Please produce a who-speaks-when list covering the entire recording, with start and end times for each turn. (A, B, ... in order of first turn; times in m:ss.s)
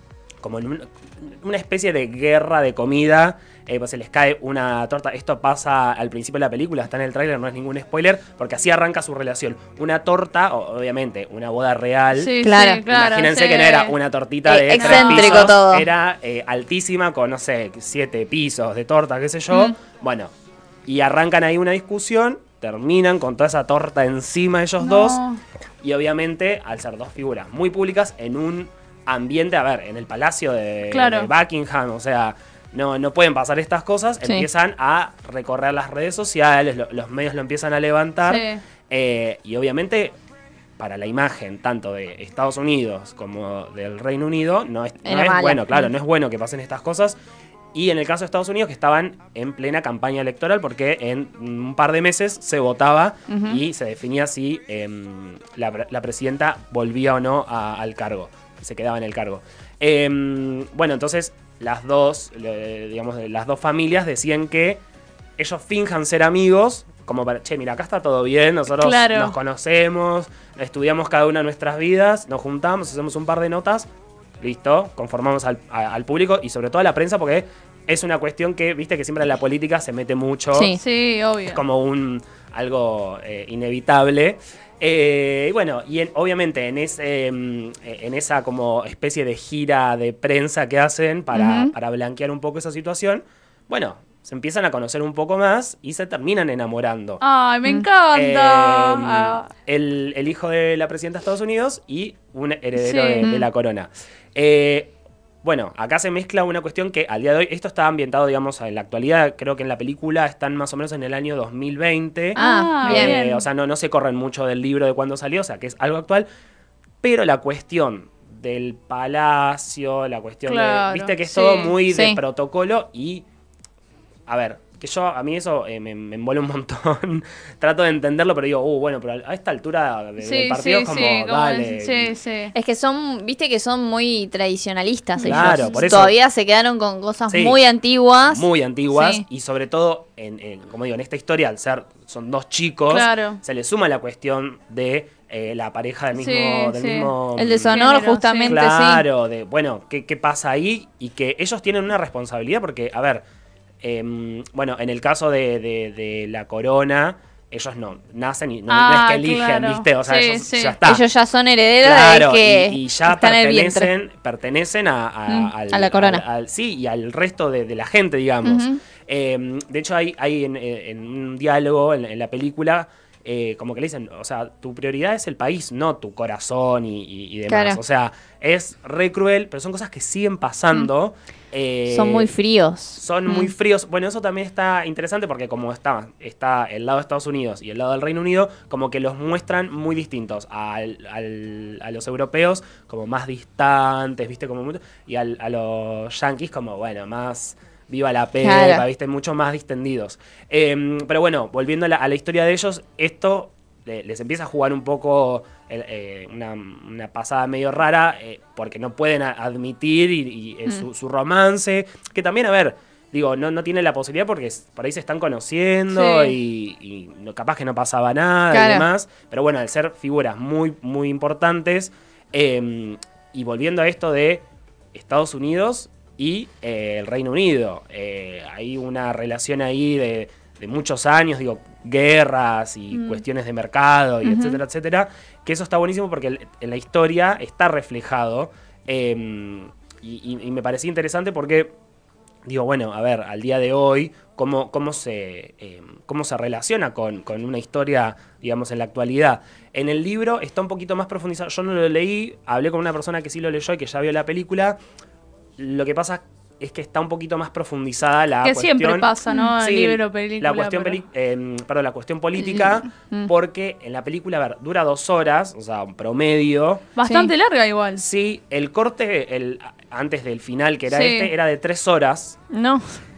0:00.4-0:12.3 A
0:12.2-0:13.9 B
0:12.4-0:12.8 C
0:12.9-0:20.3 A
0:14.4-0:15.9 C
0:14.7-0:15.5 B
0:20.8-0:25.2 A
0:24.8-0:25.4 B
0:25.8-0:40.2 A
0:30.9-0:31.3 B
0:38.2-0:38.6 B
0:40.8-0:47.2 A
0:45.0-0:45.9 C
0:47.7-1:04.8 A
0:53.3-0:53.6 C
1:05.4-1:13.9 A
1:08.8-1:09.4 B
1:14.4-1:20.8 A
1:20.5-1:20.8 C
1:20.8-1:21.6 B
1:21.5-1:37.2 A
1:31.3-1:31.7 C
1:37.2-1:39.5 B
1:38.1-1:56.3 A
1:42.7-1:43.3 B
1:43.2-1:43.4 C
1:52.4-1:53.2 C
1:52.4-1:53.4 B
1:57.0-2:03.2 A
2:00.4-2:01.8 B
2:01.9-2:02.2 C
2:04.3-2:12.1 A
2:10.2-2:12.5 B
2:12.5-2:19.2 C
2:15.2-2:15.9 B
2:15.2-2:16.1 A
2:17.3-2:17.6 A
2:18.3-2:27.8 A
2:22.9-2:23.4 B
2:26.1-2:27.1 B
2:27.4-2:29.0 C
2:27.7-2:28.6 B
2:28.4-2:33.2 A
2:33.8-2:41.0 A
2:38.7-2:40.8 B
2:40.8-2:43.9 C
2:41.8-3:02.3 A
2:45.3-2:46.2 C
2:48.4-2:48.8 C
2:57.5-2:57.8 C
3:01.9-3:03.5 C
3:03.0-4:01.7 A
3:18.4-3:18.8 C
3:35.9-3:36.3 B
3:38.5-3:38.9 C
3:52.9-3:53.2 B
3:54.2-3:54.6 C
4:02.4-4:14.8 A
4:15.6-4:26.9 A
4:18.4-4:21.0 B
4:22.4-4:23.3 C
4:27.0-4:28.0 B
4:27.0-4:27.3 C
4:28.0-4:32.4 A
4:30.9-4:31.3 B
4:32.5-4:33.0 C